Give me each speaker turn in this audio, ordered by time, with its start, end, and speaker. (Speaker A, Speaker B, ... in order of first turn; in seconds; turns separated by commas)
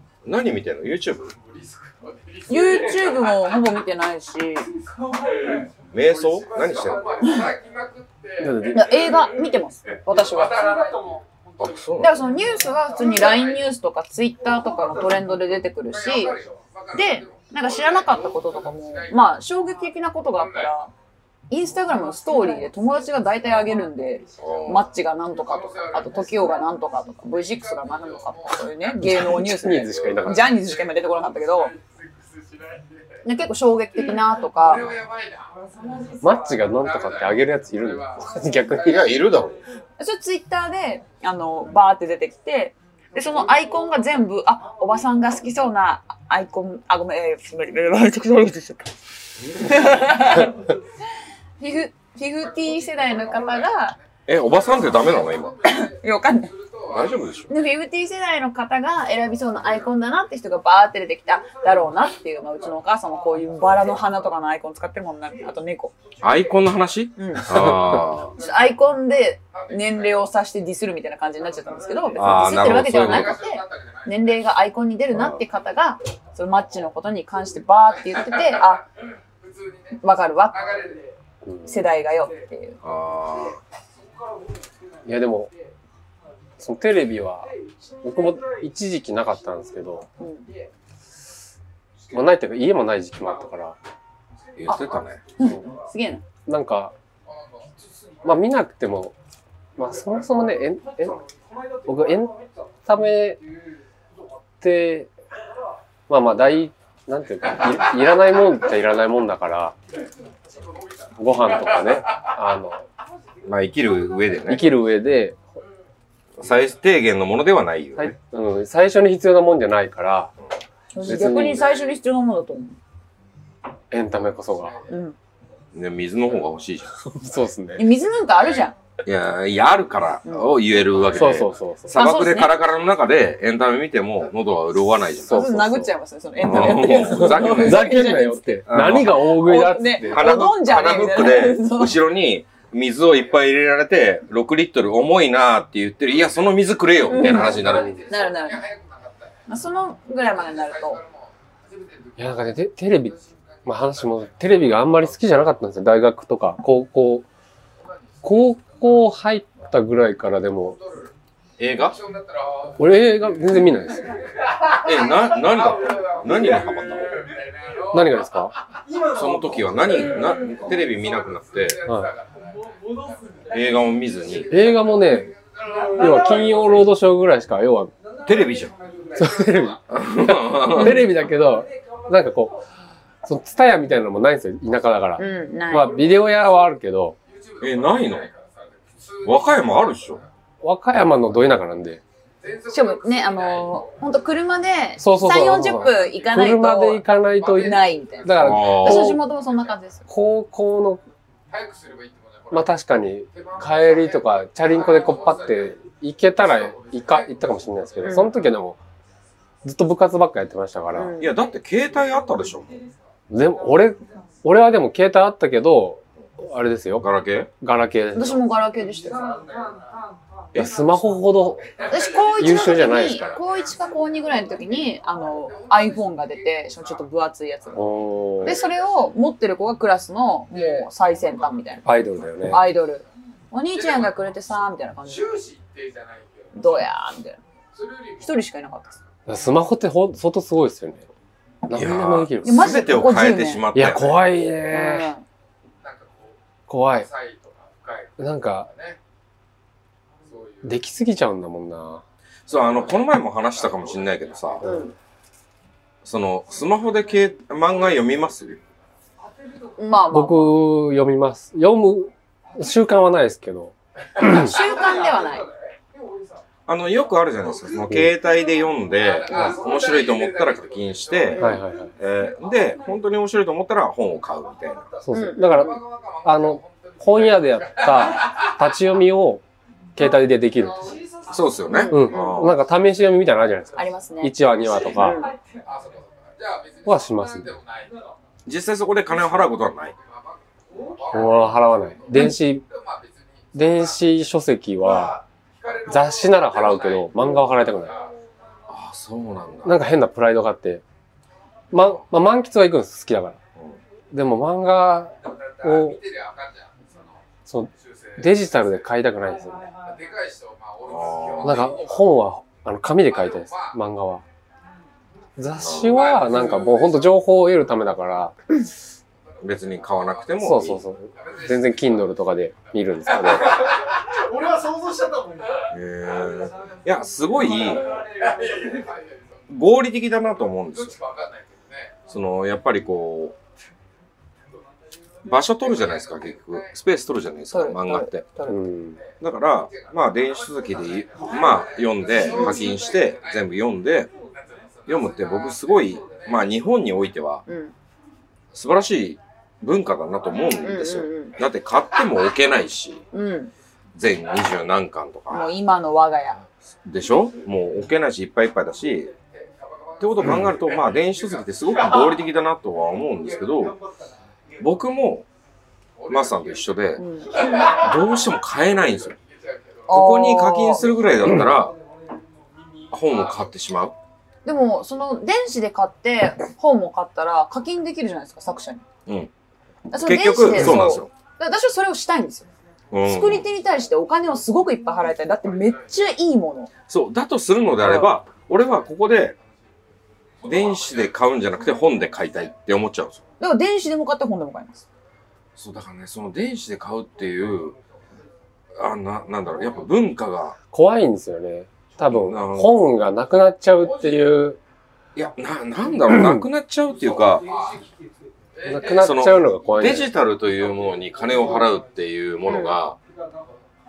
Speaker A: 0.2-1.3, Speaker B: 1.3-3.4, Speaker C: 2.5-4.7, Speaker D: 4.9-5.7, Speaker A: 5.9-7.2, Speaker B: 6.2-9.0, Speaker E: 8.4-8.9, Speaker C: 8.7-10.7, Speaker B: 10.1-11.2, Speaker D: 10.8-11.4, Speaker A: 11.6-12.3, Speaker C: 12.0-16.4, Speaker B: 13.0-13.4, Speaker B: 15.9-19.4, Speaker C: 16.9-20.9, Speaker B: 20.4-20.7, Speaker C: 21.5-31.7, Speaker A: 24.4-24.9, Speaker B: 25.4-26.3, Speaker B: 27.4-28.8, Speaker E: 29.0-30.5, Speaker B: 30.2-33.2, Speaker C: 33.2-35.0, Speaker B: 34.6-35.5, Speaker D: 35.6-36.5, Speaker E: 36.2-39.1, Speaker B: 36.8-39.1, Speaker A: 38.8-39.6, Speaker C: 40.0-48.9, Speaker A: 49.4-49.9, Speaker C: 49.5-50.7, Speaker C: 51.6-54.0, Speaker B: 52.8-57.2, Speaker A: 54.3-55.6, Speaker C: 55.6-56.5, Speaker A: 56.9-57.5, Speaker C: 57.5-65.9, Speaker A: 66.2-68.4, Speaker C: 67.2-78.8, Speaker E: 67.5-67.9, Speaker B: 69.5-70.2, Speaker A: 72.2-73.4, Speaker B: 72.5-74.5, Speaker B: 79.4-80.0, Speaker C: 80.0-80.8, Speaker B: 80.5-81.0, Speaker E: 81.4-81.8, Speaker C: 81.6-82.8, Speaker A: 82.8-83.6, Speaker E: 85.0-85.5, Speaker E: 86.6-90.1, Speaker C: 90.2-90.5, Speaker E: 92.1-93.8, Speaker A: 94.5-95.2, Speaker C: 94.7-96.2, Speaker E: 96.5-96.9, Speaker B: 97.3-97.7, Speaker E: 98.2-99.1, Speaker E: 99.8-101.2, Speaker E: 101.8-103.4, Speaker E: 104.6-105.1, Speaker E: 106.1-109.8, Speaker B: 110.5-112.0, Speaker E: 111.2-112.8, Speaker A: 113.4-114.7, Speaker E: 114.5-115.4, Speaker A: 116.4-118.1, Speaker E: 118.0-120.3, Speaker C: 120.9-122.8, Speaker E: 121.0-121.7, Speaker E: 123.9-124.8, Speaker B: 124.5-124.8, Speaker C: 124.9-125.2, Speaker A: 125.7-126.9, Speaker E: 127.0-127.8, Speaker C: 127.8-128.7, Speaker A: 129.0-135.5, Speaker C: 130.2-130.5, Speaker E: 131.1-132.0, Speaker C: 131.9-132.5, Speaker E: 135.2-135.9, Speaker C: 135.2-142.0, Speaker A: 136.4-138.0, Speaker E: 136.6-140.4, Speaker A: 138.7-139.4, Speaker A: 140.0-148.0, Speaker C: 147.1-148.6, Speaker B: 147.2-149.4, Speaker C: 149.5-151.0, Speaker B: 150.5-154.8, Speaker E: 152.2-157.3, Speaker B: 157.8-158.9, Speaker E: 158.2-160.8, Speaker B: 160.8-161.1, Speaker A: 161.6-162.0, Speaker B: 161.8-163.1, Speaker E: 162.8-164.2, Speaker B: 164.6-168.3, Speaker A: 164.8-167.2, Speaker E: 167.9-168.5, Speaker A: 169.0-171.8, Speaker B: 170.2-176.8, Speaker E: 171.8-172.1, Speaker D: 172.7-173.5, Speaker A: 173.5-174.5, Speaker E: 174.5-175.3, Speaker E: 175.9-177.9, Speaker A: 178.2-178.7, Speaker B: 179.1-180.0, Speaker E: 179.2-182.6, Speaker A: 179.9-181.1, Speaker E: 183.2-187.2, Speaker C: 185.2-186.1, Speaker B: 187.3-190.3, Speaker A: 187.6-188.3, Speaker A: 189.2-190.2, Speaker E: 190.6-192.0, Speaker B: 192.4-194.2, Speaker C: 192.7-200.1, Speaker E: 195.0-199.2, Speaker B: 195.9-196.3, Speaker B: 197.4-198.6, Speaker A: 198.4-199.2, Speaker E: 200.1-201.0, Speaker B: 201.5-205.8, Speaker E: 202.5-208.8, Speaker B: 206.4-208.3, Speaker C: 208.0-208.3, Speaker E: 209.6-211.1, Speaker C: 210.9-211.3, Speaker A: 211.2-212.8, Speaker E: 213.3-218.4, Speaker A: 217.0-217.5, Speaker C: 218.1-219.4, Speaker B: 219.2-219.8, Speaker D: 219.7-220.2, Speaker E: 220.5-221.7, Speaker B: 221.7-223.7, Speaker C: 221.9-227.8, Speaker E: 222.3-223.4, Speaker B: 225.3-227.0, Speaker E: 227.7-228.6, Speaker B: 228.4-229.1, Speaker C: 228.4-231.8, Speaker B: 230.5-231.8, Speaker E: 231.8-232.6, Speaker B: 232.4-232.8, Speaker C: 232.5-235.4, Speaker B: 233.7-234.1, Speaker B: 235.0-236.8, Speaker C: 236.5-237.4, Speaker B: 237.7-238.3, Speaker C: 238.2-239.0, Speaker E: 239.3-241.1, Speaker E: 241.7-242.8, Speaker A: 241.7-244.2, Speaker C: 242.4-243.7, Speaker E: 243.7-245.1, Speaker C: 244.7-245.2, Speaker B: 245.8-246.4, Speaker E: 246.7-247.1, Speaker B: 247.0-249.0, Speaker E: 248.2-248.7, Speaker B: 250.2-250.7, Speaker E: 250.6-252.0, Speaker A: 252.5-254.7, Speaker B: 253.6-254.6, Speaker C: 254.6-254.9, Speaker A: 256.0-258.6, Speaker C: 259.8-260.6, Speaker E: 260.1-264.5, Speaker C: 264.2-265.5, Speaker B: 264.4-265.2, Speaker A: 266.7-274.9, Speaker B: 269.1-271.4, Speaker E: 271.4-271.9, Speaker E: 275.0-279.4, Speaker C: 275.1-275.8, Speaker B: 275.4-278.5, Speaker E: 279.9-280.9, Speaker A: 281.3-282.6, Speaker C: 281.6-282.4, Speaker E: 281.9-285.3, Speaker C: 283.7-285.3, Speaker B: 285.6-287.9, Speaker E: 286.9-287.5, Speaker A: 288.4-289.9, Speaker B: 290.0-293.9, Speaker E: 291.1-292.6, Speaker E: 293.5-295.2, Speaker B: 294.9-298.1, Speaker E: 295.9-298.0, Speaker A: 298.7-299.8, Speaker E: 299.6-300.8, Speaker E: 301.7-303.4, Speaker A: 301.7-302.0, Speaker E: 304.1-306.0, Speaker B: 305.2-307.2, Speaker E: 307.5-309.7, Speaker B: 307.8-308.5, Speaker B: 309.8-312.1, Speaker A: 310.8-311.8, Speaker E: 311.4-314.2, Speaker B: 313.1-313.8, Speaker E: 315.4-318.3, Speaker A: 315.6-316.5, Speaker B: 315.8-317.1, Speaker B: 319.3-320.4, Speaker A: 319.4-320.8, Speaker E: 320.4-323.6, Speaker B: 321.1-323.6, Speaker D: 324.5-325.3, Speaker A: 325.7-327.9, Speaker B: 328.2-329.4, Speaker A: 329.5-330.9, Speaker B: 330.7-332.0, Speaker A: 332.1-333.4, Speaker A: 335.3-338.3, Speaker B: 335.7-336.7, Speaker C: 337.5-338.6, Speaker E: 338.5-339.0, Speaker B: 339.0-343.5, Speaker A: 339.2-344.1, Speaker B: 344.3-346.5, Speaker A: 344.9-347.4, Speaker C: 347.5-347.7, Speaker A: 348.5-353.0, Speaker C: 350.6-351.4, Speaker C: 353.1-353.5, Speaker A: 353.9-355.5, Speaker C: 355.3-356.4, Speaker A: 356.8-359.1, Speaker B: 359.3-361.6, Speaker A: 360.0-363.8, Speaker A: 364.6-365.2, Speaker B: 366.0-366.8, Speaker A: 366.1-369.1, Speaker C: 367.0-367.7, Speaker B: 367.3-367.8, Speaker B: 369.1-369.9, Speaker C: 369.9-370.9, Speaker A: 369.9-371.7, Speaker A: 372.9-373.9, Speaker C: 374.4-378.8, Speaker A: 379.1-379.3, Speaker C: 379.9-382.5, Speaker A: 379.9-381.1, Speaker A: 382.9-383.4, Speaker C: 383.0-386.7, Speaker B: 385.4-385.9, Speaker A: 386.9-389.3, Speaker C: 387.8-388.1, Speaker B: 390.4-391.1, Speaker A: 390.4-393.2, Speaker C: 393.4-394.8, Speaker A: 395.6-397.8, Speaker A: 398.7-400.6, Speaker E: 400.7-404.6, Speaker A: 402.0-402.8, Speaker A: 405.1-407.4, Speaker E: 406.1-406.4, Speaker B: 407.4-407.8, Speaker B: 408.6-409.4, Speaker E: 408.6-410.1, Speaker A: 408.9-413.0, Speaker C: 412.4-412.8